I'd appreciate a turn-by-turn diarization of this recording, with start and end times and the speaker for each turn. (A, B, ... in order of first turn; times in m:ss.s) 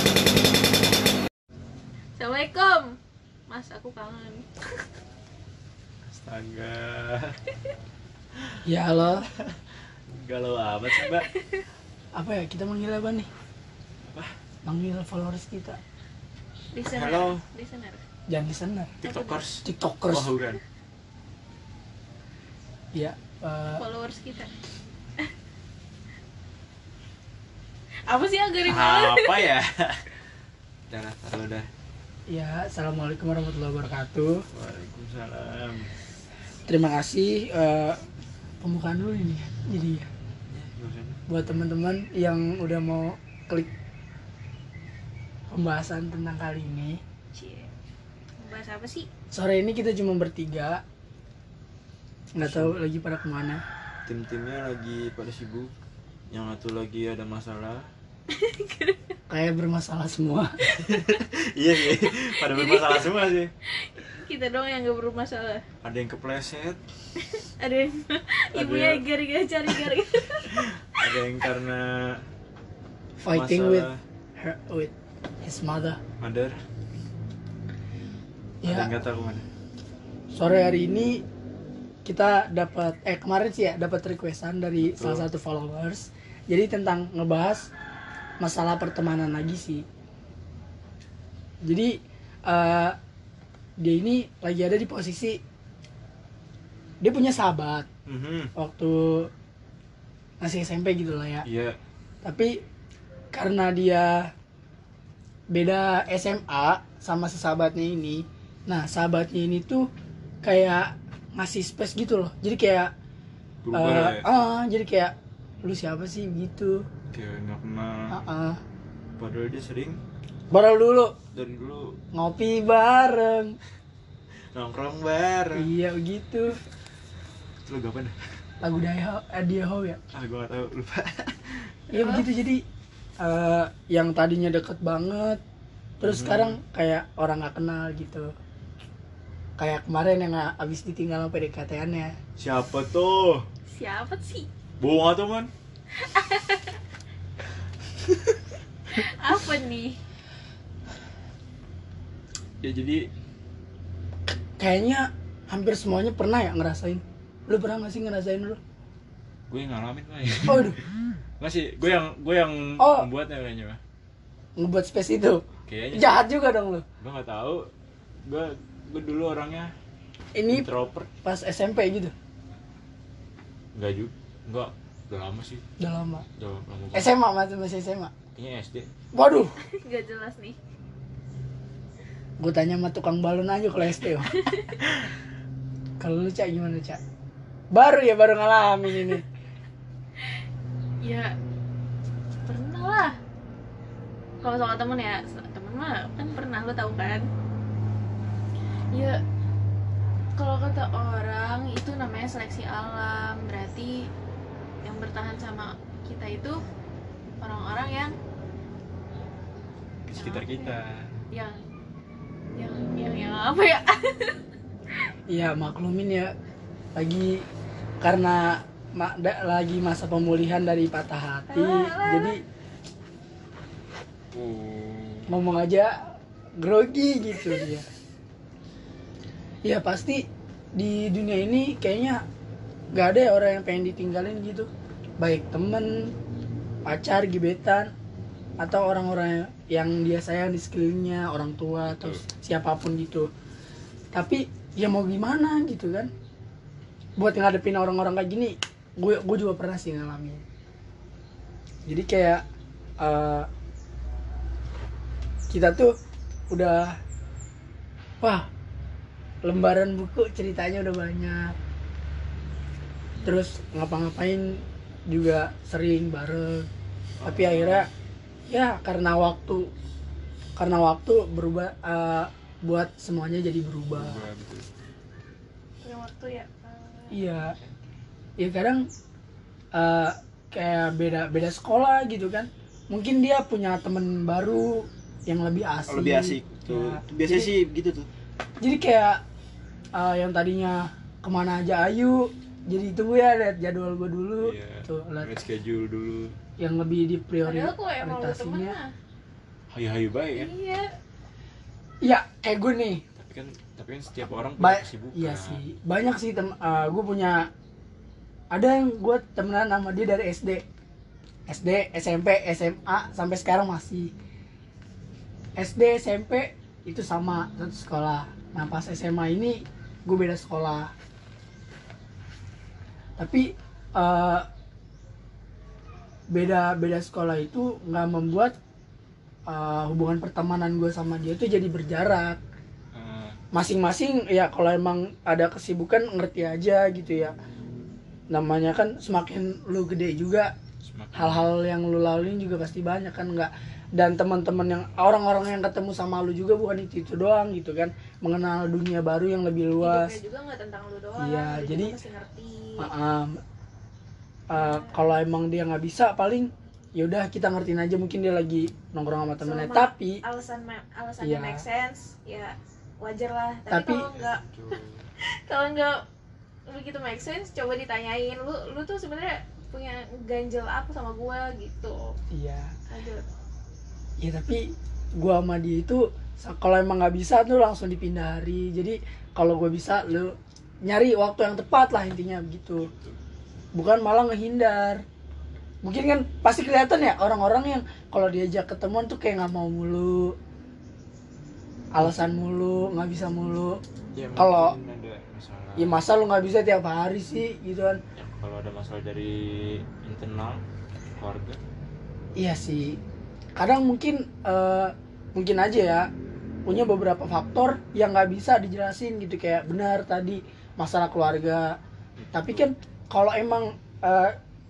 0:02.2-0:03.0 A
0:03.5-0:04.6 A
0:06.1-0:07.4 B
0:08.4-0:08.6 B
0:08.7-0:09.2 C
0:10.1-0:11.3 B
0:11.1-0:11.7 A
0:12.2-0:13.3 C
0:14.0-0:14.3 B
0:14.6-0:15.8 C
0:16.7-0:18.0 A
0:16.9-0:17.4 B
0:18.3-0:19.0 C
0:19.0-0:20.6 B
0:19.0-0:19.4 A
0:19.6-0:20.3 C
0:23.0-0:23.8 C
0:23.8-0:24.5 A
0:28.1-0:29.5 A
0:28.6-0:30.0 B
0:30.9-0:31.7 B
0:32.3-0:34.4 C
0:34.5-0:35.9 B
0:36.7-0:38.0 C
0:38.6-0:40.1 C
0:40.5-0:41.2 B
0:41.3-0:43.7 C
0:45.5-0:47.0 C
0:47.3-0:47.7 A
0:48.4-0:49.1 A
0:49.3-0:50.8 C
0:52.4-0:53.6 C
0:52.4-0:52.7 B
0:54.0-0:55.7 B
0:56.3-0:57.8 B
0:58.3-0:59.2 A
0:59.3-1:00.5 C
1:00.6-1:03.5 B
1:02.0-1:05.6 A
1:05.8-1:06.8 B
1:07.2-1:11.2 A
1:08.5-1:09.0 B
1:10.5-1:12.2 B
1:13.2-1:13.9 C
1:13.3-1:14.0 B
1:14.4-1:16.0 C
1:16.2-1:16.6 B
1:18.6-1:18.9 C
1:18.6-1:19.5 B
1:20.3-1:21.2 C
1:22.0-1:27.7 C
1:24.8-1:25.3 B
1:28.4-1:29.8 C
1:31.6-1:33.0 C
1:33.8-1:35.4 C
1:37.0-1:37.9 C
1:38.1-1:38.5 B
1:38.6-1:39.3 C
1:40.4-1:41.4 C
1:41.4-1:41.8 B
1:42.2-1:42.6 C
1:43.3-1:44.3 C
1:45.5-1:49.9 C
1:50.4-1:52.9 C
1:53.6-1:54.3 B
1:53.7-1:56.8 C
1:57.1-1:58.2 B
1:58.1-1:58.6 C
1:59.2-2:00.0 B
2:00.5-2:01.1 C
2:01.3-2:02.0 B
2:02.1-2:03.6 C
2:04.5-2:05.7 B
2:05.6-2:06.6 C
2:07.6-2:08.2 B
2:08.6-2:10.0 C
2:10.1-2:11.7 B
2:11.9-2:12.6 C
2:11.9-2:12.2 A
2:13.2-2:15.4 C
2:16.0-2:16.6 B
2:16.0-2:18.3 C
2:19.6-2:22.2 C
2:22.4-2:23.4 B
2:23.7-2:24.5 A
2:24.8-2:25.5 B
2:25.9-2:26.8 A
2:28.9-2:30.0 A
2:32.6-2:33.1 B
2:34.3-2:38.6 C
2:39.5-2:40.9 B
2:40.5-2:40.8 C
2:41.4-2:43.8 B
2:42.8-2:43.1 C
2:44.6-2:46.8 C
2:45.7-2:46.3 B
2:47.0-2:47.7 B
2:48.2-2:49.7 B
2:50.4-2:50.7 C
2:50.5-2:51.1 B
2:51.2-2:52.1 C
2:53.8-2:55.6 B
2:55.8-2:56.3 C
2:56.4-2:57.1 B
2:56.9-2:58.1 C
2:58.4-2:58.9 B
2:59.1-2:59.6 C
2:59.7-3:00.6 A
3:02.4-3:04.5 C
3:04.3-3:04.8 A
3:06.0-3:07.0 C
3:07.7-3:09.2 C
3:11.0-3:11.3 A
3:12.5-3:13.2 A
3:14.4-3:17.3 A
3:18.9-3:19.2 A
3:20.4-3:24.1 A
3:24.8-3:26.6 A
3:27.4-3:28.2 A
3:30.1-3:31.2 B
3:30.2-3:30.8 A
3:31.3-3:31.6 A
3:32.6-3:34.4 A
3:35.3-3:36.3 C
3:37.0-3:37.5 C
3:38.0-3:42.4 C
3:41.5-3:42.4 A
3:44.3-3:45.3 B
3:45.3-3:46.0 C
3:46.6-3:47.9 C
3:49.6-3:50.2 C
3:50.8-3:52.2 C
3:53.0-3:54.7 C
3:55.2-3:56.1 C
3:56.9-3:57.9 C
3:58.6-4:03.3 C
4:01.9-4:02.2 B
4:04.1-4:06.1 C
4:07.2-4:10.4 C
4:11.9-4:12.4 C
4:13.0-4:13.5 C
4:15.5-4:16.0 C
4:16.5-4:17.0 C
4:18.2-4:18.5 C
4:19.4-4:21.6 C
4:23.2-4:23.4 B
4:23.2-4:26.7 C
4:27.2-4:27.9 B
4:27.2-4:27.9 C
4:28.5-4:29.6 C
4:30.6-4:34.2 C
4:33.9-4:34.7 B
4:35.8-4:37.7 A
4:37.1-4:37.5 C
4:38.4-4:38.9 C
4:39.8-4:47.5 C
4:45.9-4:48.1 B
4:48.6-4:49.2 C
4:50.0-4:55.4 C
4:54.4-4:56.4 B
4:56.6-4:58.8 C
4:57.4-4:58.9 A
4:59.7-5:00.5 B
5:00.4-5:00.9 A
5:02.0-5:03.0 C
5:03.2-5:05.6 B
5:04.6-5:07.5 C
5:08.5-5:10.6 C
5:11.5-5:14.1 C
5:15.6-5:20.9 C
5:23.2-5:24.5 C
5:26.3-5:28.5 C
5:29.5-5:32.4 C
5:32.9-5:33.4 B
5:33.5-5:37.3 C
5:38.3-5:40.5 C
5:40.8-5:41.5 B
5:41.2-5:50.1 C
5:49.8-5:52.9 A
5:51.2-5:52.0 C
5:52.8-5:53.4 C
5:54.5-6:00.2 C
5:54.6-5:55.0 A
5:59.4-6:06.0 A
6:01.2-6:01.6 C
6:03.7-6:04.0 C
6:04.1-6:05.1 B
6:06.7-6:12.2 A
6:12.3-6:12.7 C
6:12.9-6:13.3 A
6:14.2-6:22.9 C
6:22.8-6:23.2 B
6:23.8-6:25.0 C
6:25.8-6:30.4 C
6:32.0-6:33.8 C
6:34.1-6:36.0 B
6:34.4-6:34.8 C
6:35.8-6:38.0 C
6:38.2-6:40.6 B
6:41.2-6:41.6 B
6:42.4-6:43.0 C
6:43.6-6:46.1 C
6:46.7-6:51.8 C
6:52.2-6:52.7 B
6:52.3-6:54.4 C